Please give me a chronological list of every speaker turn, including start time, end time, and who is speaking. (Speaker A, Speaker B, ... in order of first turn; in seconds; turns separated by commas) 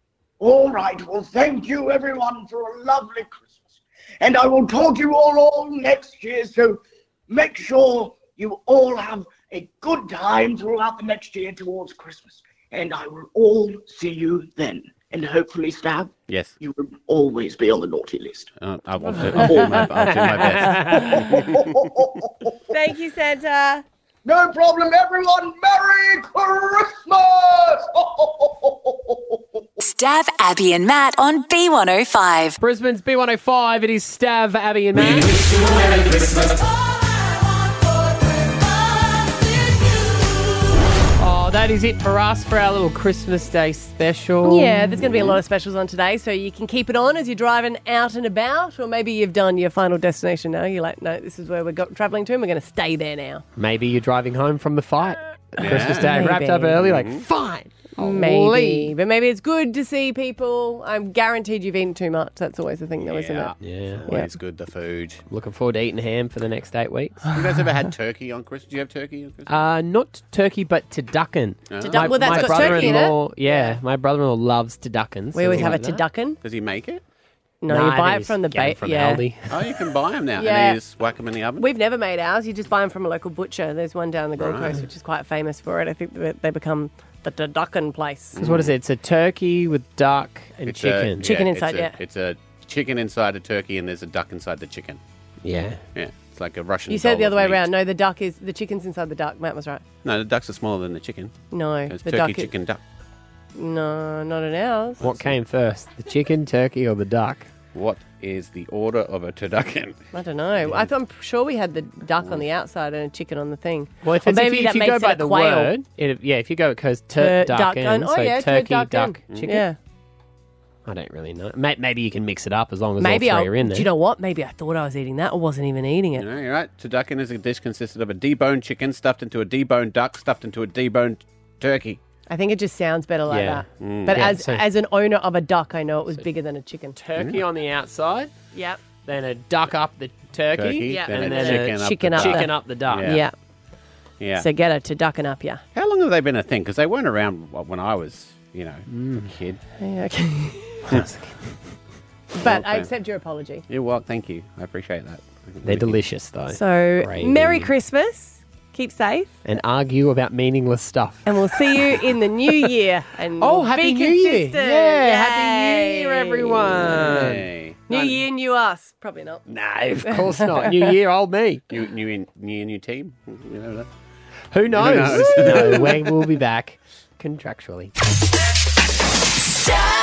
Speaker A: 0.4-18.5, Speaker B: 16.3-16.5, Speaker B: 18.6-21.5, Speaker C: 19.1-20.1, Speaker D: 20.1-21.2, Speaker A: 20.9-22.8, Speaker C: 22.7-23.8, Speaker A: 24.2-29.7, Speaker E: 29.8-32.5, Speaker D: 32.6-36.0, Speaker D: 41.2-44.9, Speaker C: 44.4-53.4, Speaker B: 45.0-45.4, Speaker D: 53.5-58.9, Speaker B: 55.6-56.1, Speaker C: 55.6-56.8, Speaker B: 56.8-57.2, Speaker C: 58.0-63.5, Speaker B: 63.0-65.2, Speaker D: 63.6-64.0, Speaker D: 65.3-67.3, Speaker B: 67.3-69.6, Speaker D: 69.5-76.1, Speaker B: 71.7-73.1, Speaker C: 71.9-73.8, Speaker C: 75.3-76.4, Speaker B: 76.4-77.0, Speaker C: 77.6-79.2, Speaker D: 77.7-79.6, Speaker B: 79.5-81.7, Speaker C: 80.3-80.8, Speaker C: 81.6-88.4, Speaker B: 84.4-84.8, Speaker B: 88.3-88.7, Speaker D: 88.4-91.2, Speaker B: 90.7-95.0, Speaker C: 91.2-92.0, Speaker D: 95.4-95.8, Speaker B: 95.9-97.7, Speaker C: 96.9-99.8, Speaker B: 100.0-101.3, Speaker C: 101.5-102.5, Speaker B: 101.9-102.8, Speaker C: 103.5-105.0, Speaker B: 105.0-105.3, Speaker D: 105.0-107.5, Speaker B: 107.7-110.0, Speaker C: 110.1-115.7, Speaker D: 114.0-119.7, Speaker C: 117.2-119.8, Speaker D: 120.8-123.9, Speaker C: 123.0-126.2, Speaker B: 126.2-132.0, Speaker C: 132.3-136.9, Speaker D: 133.3-134.7, Speaker B: 133.8-134.2, Speaker D: 136.9-138.3, Speaker B: 137.2-137.4, Speaker C: 138.5-138.8, Speaker D: 139.0-143.2, Speaker B: 140.5-143.2, Speaker C: 140.9-143.3, Speaker B: 144.2-144.5, Speaker C: 144.3-145.6, Speaker B: 145.7-149.6, Speaker D: 148.9-149.3, Speaker C: 149.8-150.9, Speaker D: 150.9-151.5, Speaker C: 152.3-153.6, Speaker B: 152.3-152.9, Speaker B: 153.7-156.0, Speaker D: 155.6-157.7, Speaker C: 156.5-159.3, Speaker D: 159.4-161.8, Speaker C: 161.2-166.8, Speaker D: 163.4-168.1, Speaker B: 166.8-168.1, Speaker C: 167.9-169.4, Speaker D: 169.5-171.7, Speaker C: 170.0-170.4, Speaker B: 171.7-173.9, Speaker D: 174.5-177.9, Speaker B: 174.7-176.0